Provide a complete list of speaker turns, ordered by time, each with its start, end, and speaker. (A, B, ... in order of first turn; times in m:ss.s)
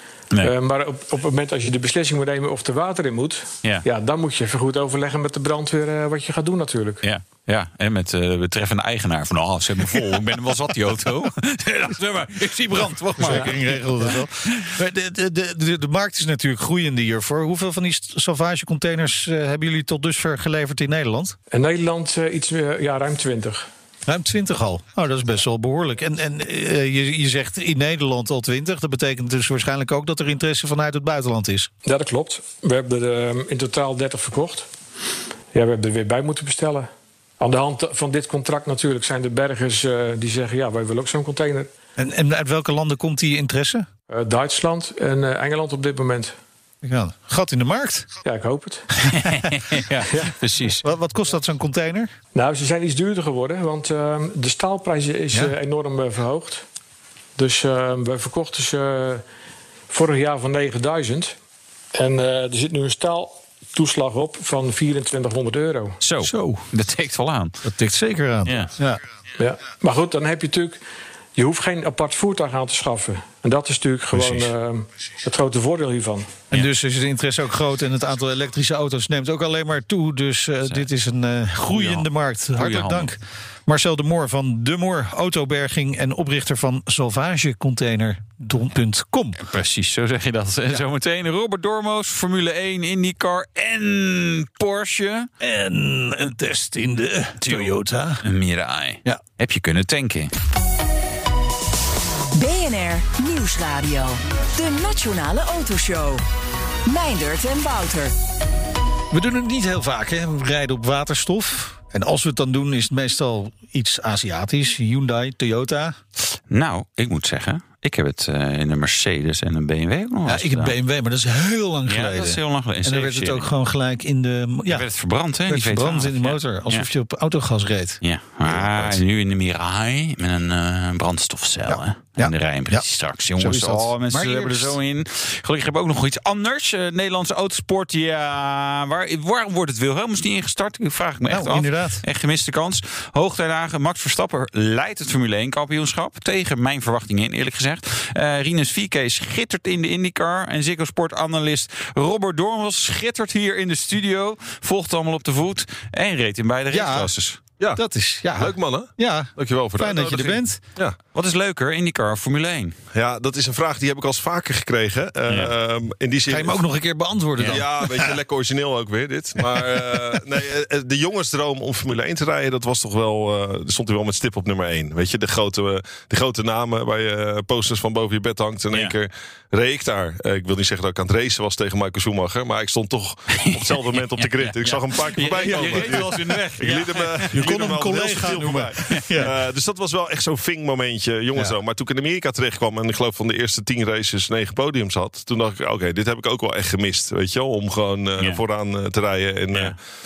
0:00.4-0:07.0 A
0:07.0-0:14.7 B
0:09.8-0:10.1 C
0:12.8-0:21.4 C
0:13.2-0:13.5 A
0:21.5-0:23.7 A
0:24.1-0:31.7 C
0:31.8-0:34.7 A
0:35.5-0:36.9 A
0:37.4-0:41.7 A
0:42.0-0:43.9 C
0:44.1-0:46.3 A
0:46.8-0:48.1 C
0:48.2-0:48.9 A
0:49.1-0:50.8 B
0:50.8-0:52.1 C
0:52.4-0:56.6 A
0:57.4-0:59.2 A
0:59.9-1:01.4 A
1:02.0-1:06.0 A
1:06.0-1:07.6 B
1:06.2-1:06.7 C
1:07.6-1:09.0 C
1:08.4-1:08.7 B
1:09.4-1:10.8 A
1:11.4-1:16.4 A
1:14.1-1:14.4 C
1:16.5-1:29.4 C
1:21.7-1:23.1 B
1:29.4-1:35.3 B
1:35.4-1:38.2 C
1:37.4-1:37.7 B
1:38.2-1:40.3 B
1:42.3-1:46.3 D
1:46.9-1:48.2 D
1:49.1-1:56.0 C
1:56.5-2:00.8 B
2:00.2-2:04.9 C
2:01.9-2:03.5 B
2:04.7-2:06.9 B
2:05.5-2:09.0 C
2:08.0-2:37.4 B
2:11.7-2:12.8 C
2:13.4-2:14.8 C
2:21.3-2:22.0 C
2:36.7-2:37.1 C
2:37.8-2:40.6 C
2:38.4-2:41.0 E
2:41.1-2:42.8 B
2:42.9-2:46.6 E
2:45.3-2:45.5 B
2:46.3-2:48.1 C
2:47.5-3:19.8 E
2:49.5-2:50.2 C
3:03.3-3:07.7 B
3:05.4-3:06.2 C
3:07.3-3:09.3 C
3:08.8-3:09.3 B